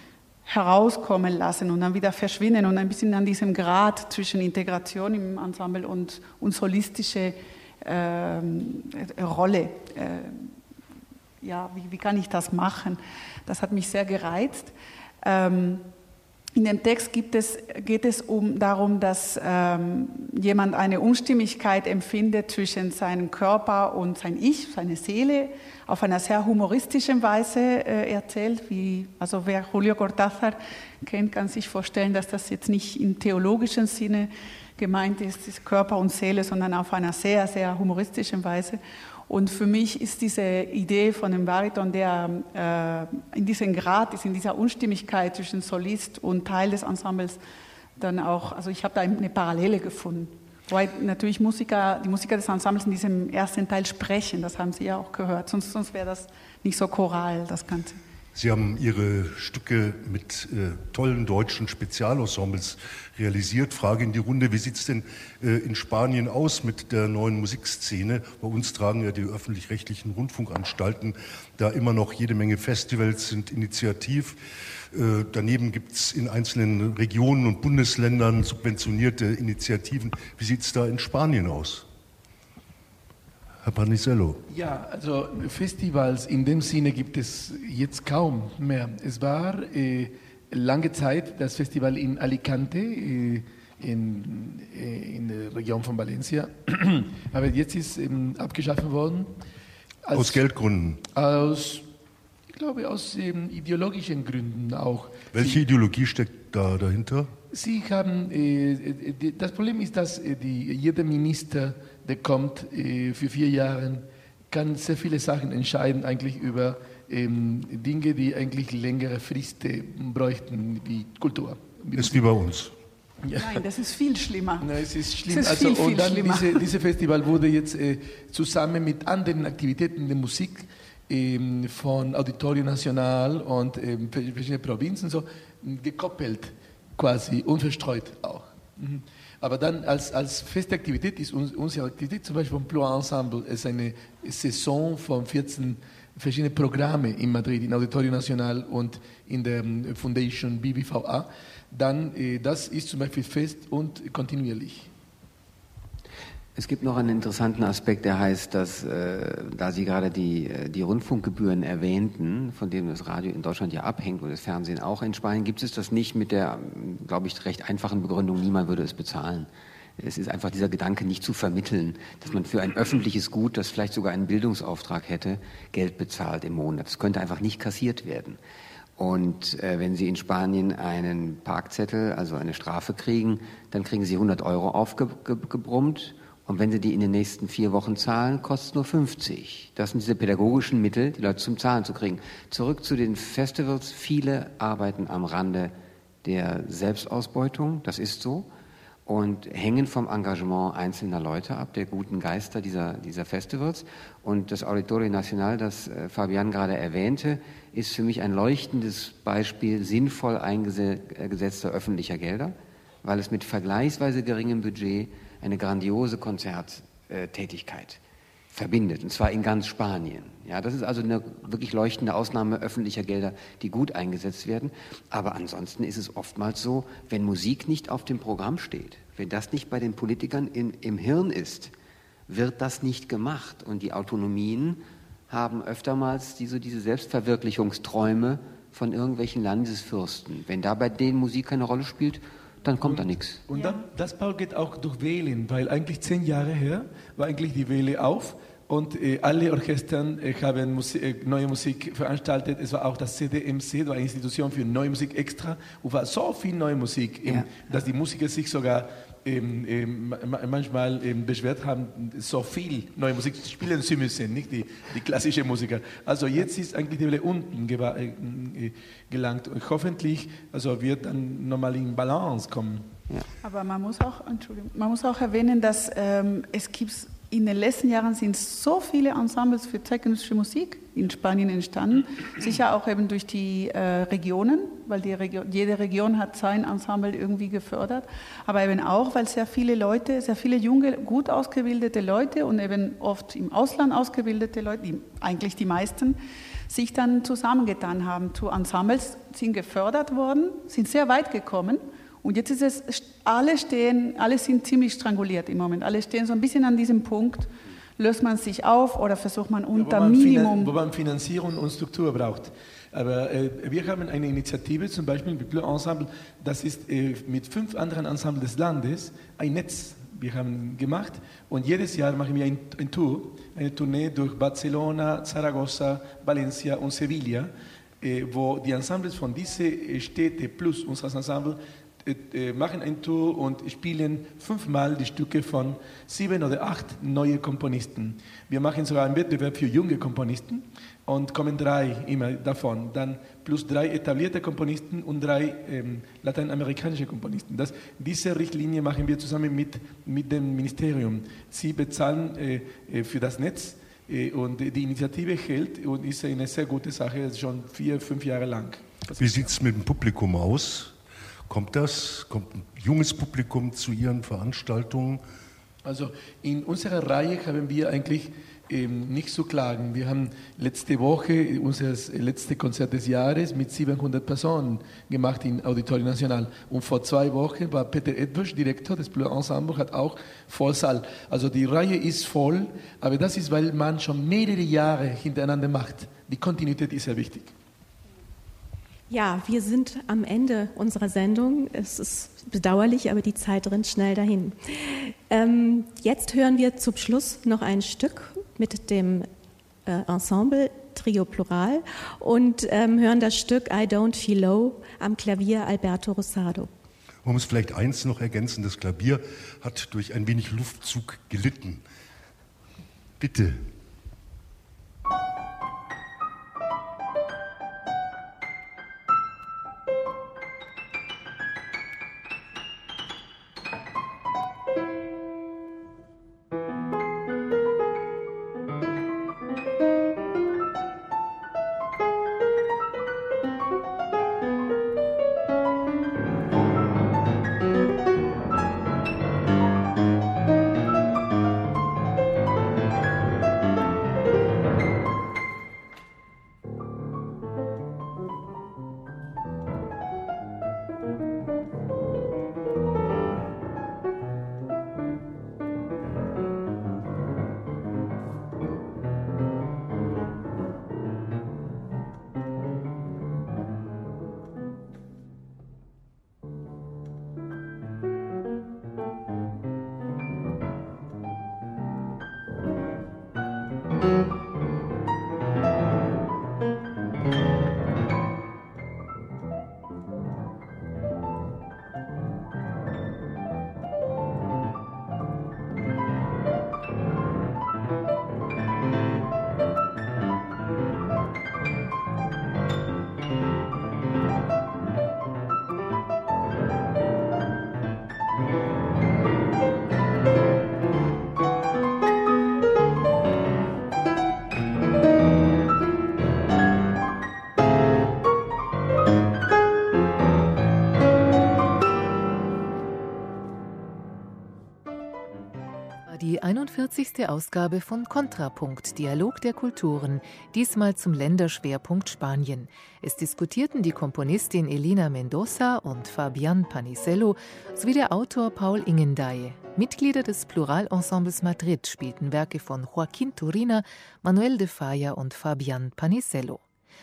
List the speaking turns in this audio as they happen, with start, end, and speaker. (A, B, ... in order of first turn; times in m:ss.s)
0:00.4-0:10.5 A
0:11.4-0:15.8 A
0:16.6-0:47.4 A
0:48.0-0:58.0 A
0:58.3-1:21.9 B
1:23.6-1:24.4 B
1:24.5-1:39.3 C
1:40.0-1:40.4 C
1:40.1-1:41.0 B
1:41.1-1:41.8 C
1:42.5-1:45.6 C
1:45.3-1:47.3 B
1:47.5-2:02.2 C
2:01.9-2:02.7 B
2:03.2-2:03.6 C
2:03.4-2:06.6 A
2:04.6-2:34.9 C
2:36.6-2:58.4 D
2:59.0-3:15.7 D
3:16.2-3:18.5 D
3:19.0-3:38.0 D
3:38.5-3:51.7 D
3:52.3-4:03.4 D
4:02.8-4:32.9 C
4:03.5-4:03.9 A
4:33.4-5:10.7 A
5:09.7-5:59.5 C
5:59.2-6:01.0 B
6:01.5-6:05.2 B
6:05.8-6:27.5 C
6:29.1-6:39.3 E
6:39.9-6:46.7 E
6:47.2-6:51.8 B
6:53.2-6:53.6 B
8:36.1-8:56.6 F